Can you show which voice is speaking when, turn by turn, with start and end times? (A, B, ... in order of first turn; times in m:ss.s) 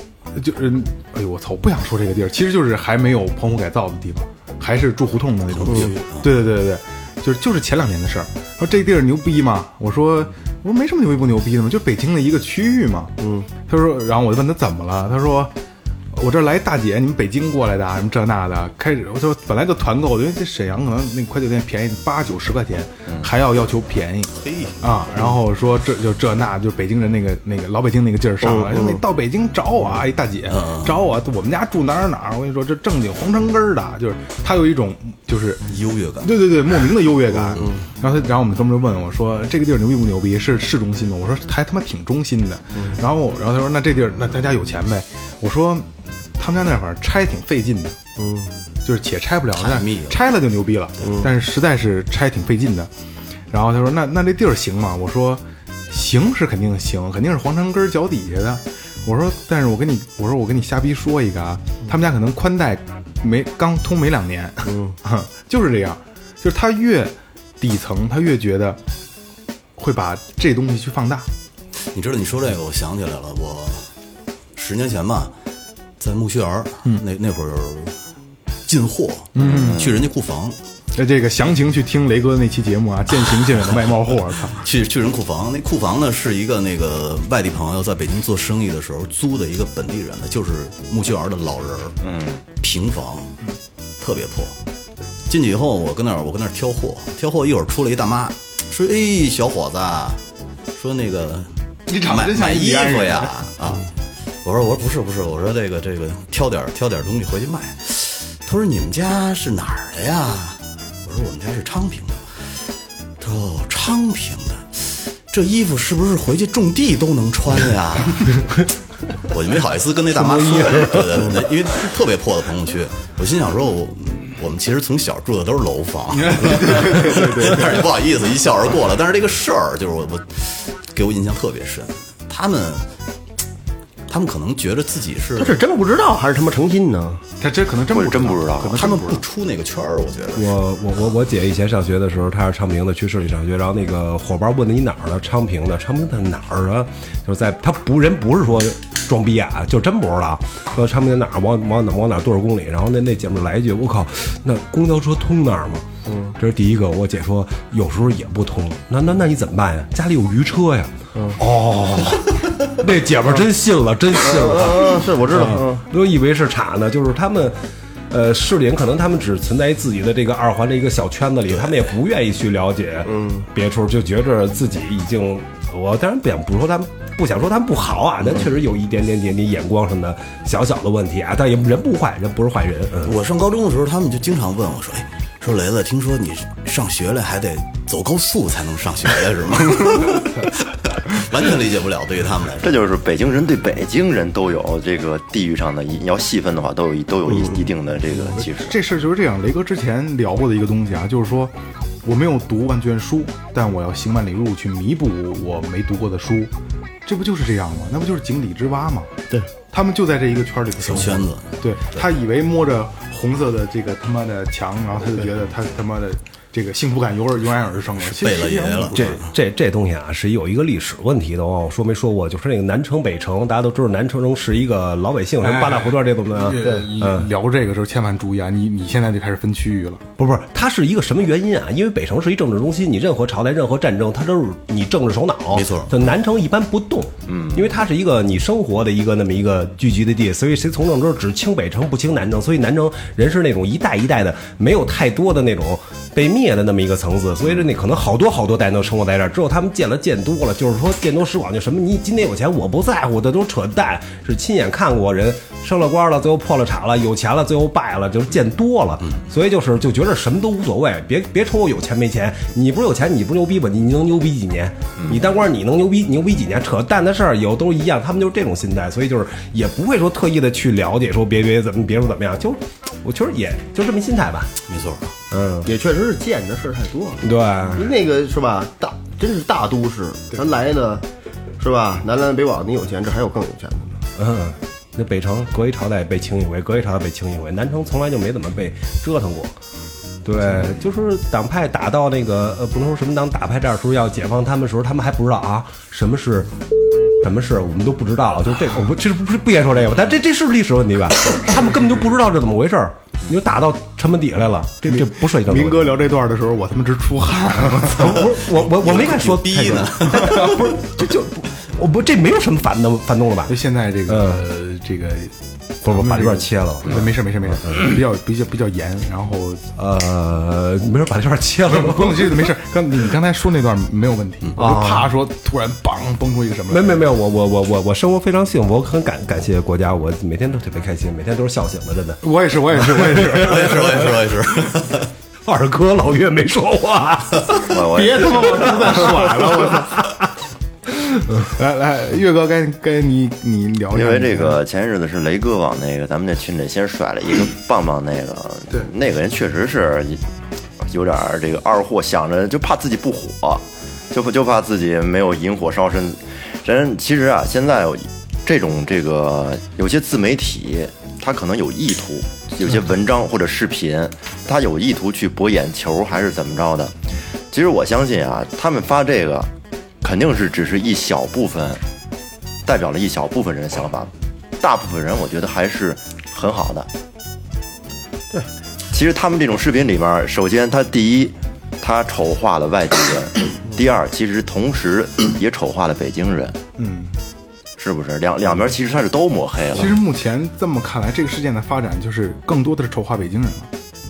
0:00.3-0:13.2 A
0:05.5-0:06.4 B
0:13.2-0:13.5 C
0:13.7-0:15.5 A
0:16.1-0:35.7 A
0:24.4-0:25.0 B
0:28.4-0:29.0 C
0:30.5-0:31.0 B
0:35.7-0:36.5 B
0:36.2-0:48.0 A
0:48.2-0:48.5 C
0:48.8-0:52.9 A
0:49.6-0:50.2 B
0:53.5-1:08.8 A
1:04.7-1:05.0 C
1:09.8-1:11.3 A
1:11.8-1:13.9 B
1:14.6-1:15.3 B
1:16.0-1:18.0 B
1:18.7-1:20.6 B
1:19.4-1:19.9 A
1:19.4-1:20.0 D
1:20.9-1:24.7 A
1:24.5-1:32.0 B
1:32.0-1:32.4 D
1:32.6-1:33.3 B
1:34.0-1:34.6 B
1:35.3-1:40.2 B
1:40.8-1:43.9 B
1:41.9-1:43.4 A
1:44.4-1:58.6 B
1:59.2-2:12.9 B
2:00.2-2:01.4 E
2:06.2-2:07.9 A
2:14.1-2:15.6 B
2:15.4-2:17.2 C
2:17.4-2:19.2 A
2:17.9-2:18.8 D
2:18.8-2:20.6 B
2:20.4-2:35.8 E
2:36.1-2:36.4 C
2:36.4-2:47.6 E
2:44.2-2:45.8 C
2:48.1-3:03.1 E
2:53.1-2:53.5 C
3:03.1-3:12.8 B
3:12.6-3:18.8 D
3:18.2-3:26.5 A
3:27.0-3:29.1 A
3:29.7-3:39.2 A
3:30.8-3:32.0 B
3:38.0-3:39.3 B
3:38.9-3:47.3 E
3:45.4-3:50.0 A
3:50.2-4:34.5 E
3:55.5-3:55.9 B
3:57.3-3:57.7 D
4:34.7-4:35.1 B
4:35.3-4:35.7 E
4:35.6-4:41.0 C
4:37.2-4:37.9 E
4:41.6-4:44.0 C
4:44.2-4:49.5 E
4:50.2-4:56.5 E
4:57.2-5:05.9 E
5:04.9-5:08.2 A
5:07.9-5:13.6 E
5:08.7-5:10.7 B
5:13.5-5:19.6 A
5:14.1-5:14.5 E
5:15.8-5:17.1 E
5:19.8-5:22.5 E
5:21.7-5:27.0 A
5:24.6-5:24.9 E
5:26.7-5:32.2 E
5:32.2-5:34.3 A
5:32.8-5:33.3 E
5:33.2-5:35.1 B
5:35.5-5:37.7 E
5:37.6-5:38.8 D
5:37.9-5:40.1 A
5:41.2-5:44.6 A
5:43.9-5:50.2 D
5:50.8-6:07.0 D
6:07.5-6:09.5 D
6:10.0-6:11.8 D
6:12.6-6:16.9 D
6:18.9-6:26.6 D
6:26.8-6:27.2 A
6:27.8-6:29.9 D
6:29.7-6:33.7 A